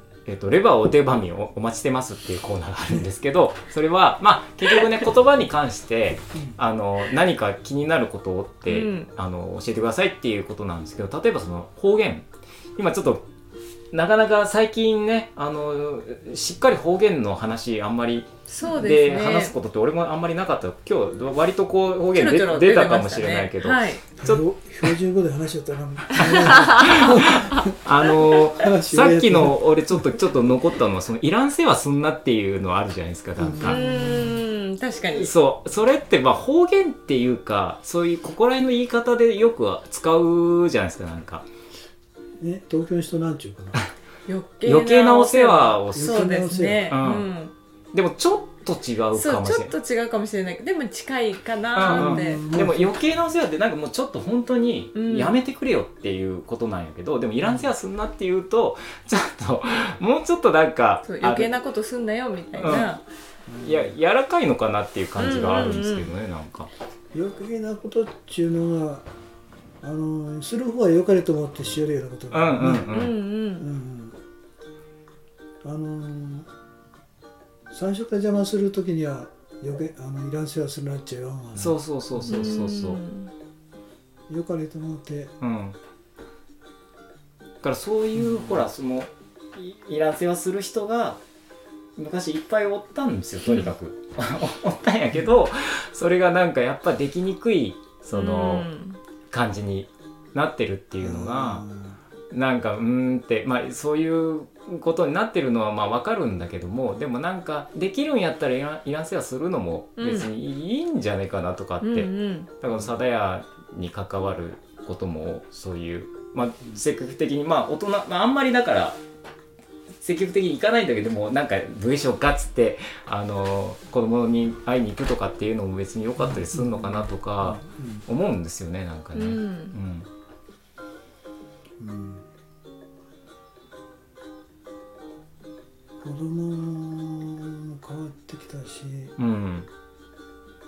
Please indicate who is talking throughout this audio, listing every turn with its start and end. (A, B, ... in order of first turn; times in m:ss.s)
0:00.2-0:13.2 A
0:08.6-0:09.1 B
0:13.9-0:24.4 A
0:18.5-0:19.5 B
0:22.1-0:24.0 B
0:24.2-0:30.2 C
0:26.1-0:27.6 B
0:26.6-0:33.8 A
0:33.4-0:34.4 C
0:33.6-0:35.3 B
0:35.1-0:41.5 A
0:42.4-0:43.8 C
0:44.3-0:47.5 B
0:44.6-0:46.2 A
0:45.9-0:47.0 C
0:46.9-0:47.3 A
0:47.9-0:49.7 A
0:49.1-0:52.4 B
0:51.7-1:01.5 A
0:51.9-0:53.0 C
0:54.9-0:55.3 B
0:57.4-0:57.7 C
1:01.0-1:03.0 B
1:02.6-1:02.9 A
1:03.5-1:03.9 C
1:03.6-1:06.7 A
1:05.2-1:06.1 B
1:07.1-1:09.1 C
1:09.8-1:12.9 C
1:12.3-1:13.2 A
1:12.9-1:13.7 B
1:13.6-1:14.2 C
1:15.6-1:16.5 C
1:17.7-1:22.4 C
1:21.6-1:23.0 A
1:22.3-1:23.3 B
1:24.3-1:25.3 C
1:25.4-1:25.8 A
1:27.6-1:31.2 A
1:28.1-1:28.6 C
1:32.0-1:38.7 A
1:38.1-1:39.0 B
1:39.3-1:41.7 A
1:41.0-1:42.0 C
1:42.3-1:59.0 A
1:50.0-1:50.3 B
1:51.8-1:52.5 B
2:00.0-2:10.1 A
2:06.2-2:08.0 C
2:09.1-2:09.7 B
2:11.8-2:12.2 C
2:16.0-2:19.2 C
2:19.2-2:19.7 A